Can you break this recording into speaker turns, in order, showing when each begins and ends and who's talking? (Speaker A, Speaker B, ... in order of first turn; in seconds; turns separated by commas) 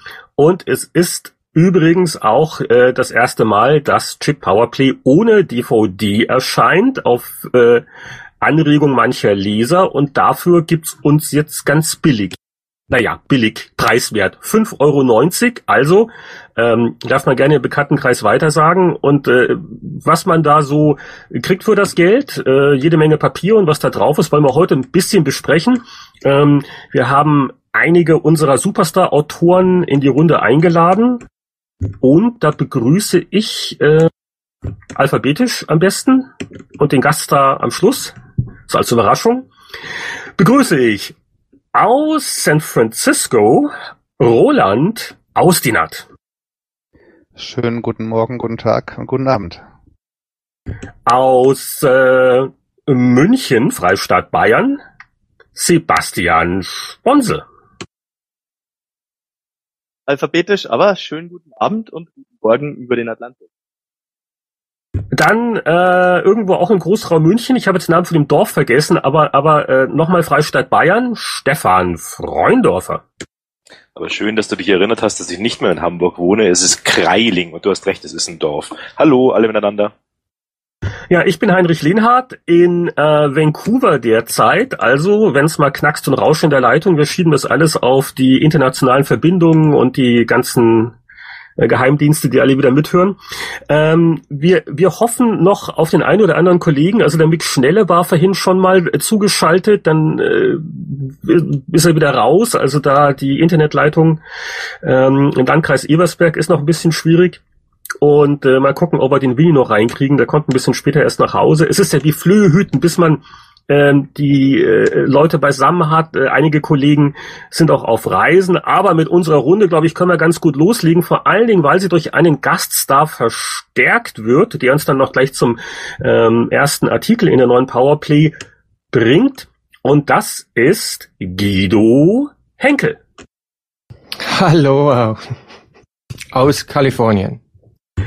Speaker A: 0.4-7.8, Speaker A: 8.4-12.4, Speaker A: 12.9-31.2, Speaker A: 32.0-34.1, Speaker A: 34.9-38.1, Speaker A: 38.7-39.5, Speaker A: 40.4-41.1, Speaker A: 41.7-46.1, Speaker B: 47.4-49.6, Speaker A: 51.0-54.8, Speaker A: 55.5-57.5, Speaker C: 60.1-63.4, Speaker A: 65.1-73.0, Speaker D: 73.9-79.9, Speaker A: 81.1-90.9, Speaker A: 91.6-93.2, Speaker A: 93.7-104.2, Speaker A: 104.8-107.4, Speaker A: 108.0-128.3, Speaker A: 128.9-133.0, Speaker E: 134.2-135.3, Speaker E: 136.3-137.4